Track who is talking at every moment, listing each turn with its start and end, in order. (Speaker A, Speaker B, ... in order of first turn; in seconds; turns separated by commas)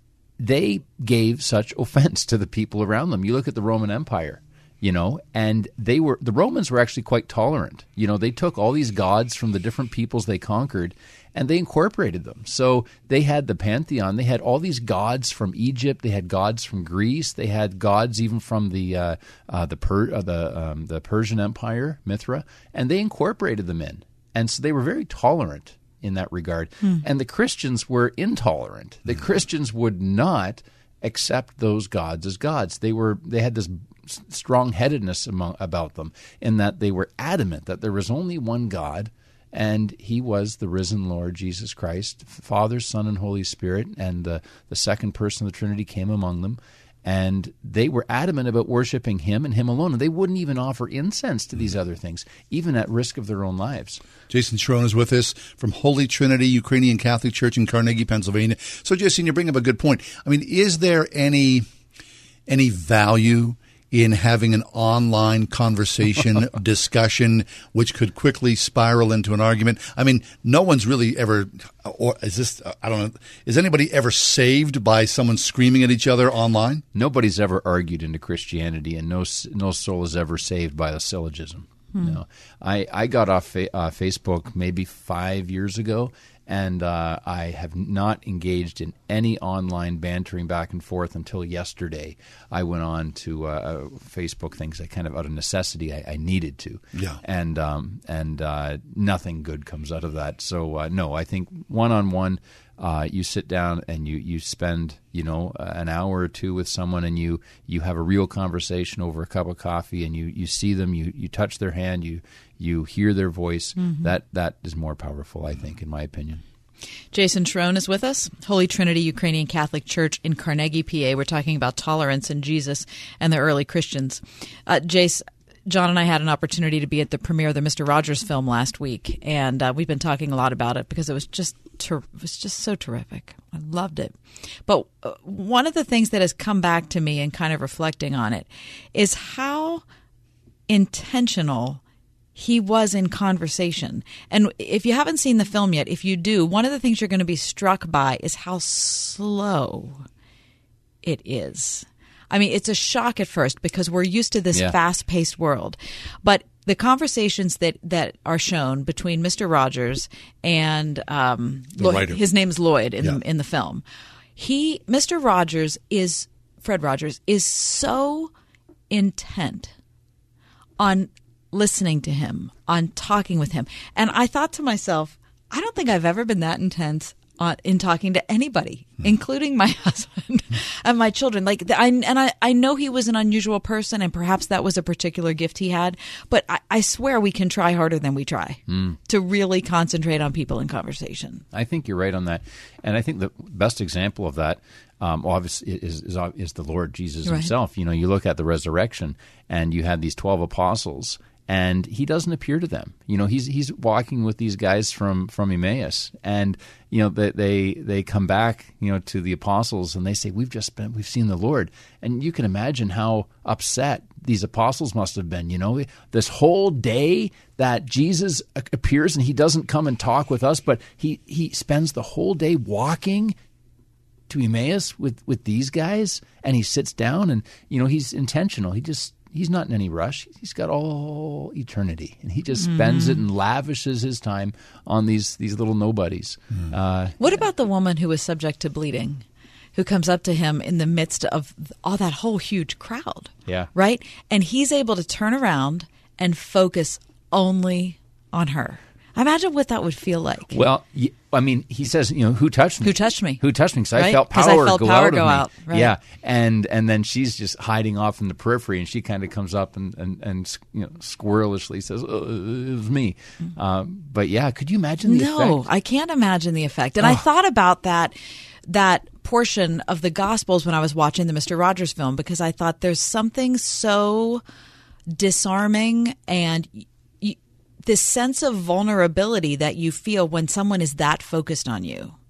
Speaker A: 0.4-54.0, Speaker B: 54.3-61.7, Speaker B: 62.5-76.8, Speaker A: 76.9-116.4, Speaker C: 81.9-82.2, Speaker B: 97.0-97.2, Speaker C: 113.8-114.1, Speaker C: 117.1-139.8, Speaker C: 140.7-141.8, Speaker C: 142.4-150.1, Speaker C: 151.0-163.8, Speaker B: 161.8-162.2, Speaker C: 164.4-168.3, Speaker C: 168.9-169.8, Speaker C: 170.8-191.4, Speaker A: 188.7-189.0, Speaker A: 191.5-223.4, Speaker C: 197.2-197.5, Speaker A: 224.3-237.2, Speaker C: 232.6-233.2, Speaker C: 237.2-250.7, Speaker A: 250.5-265.6, Speaker C: 252.8-253.4, Speaker C: 253.9-255.9, Speaker C: 265.1-274.4, Speaker C: 275.1-282.2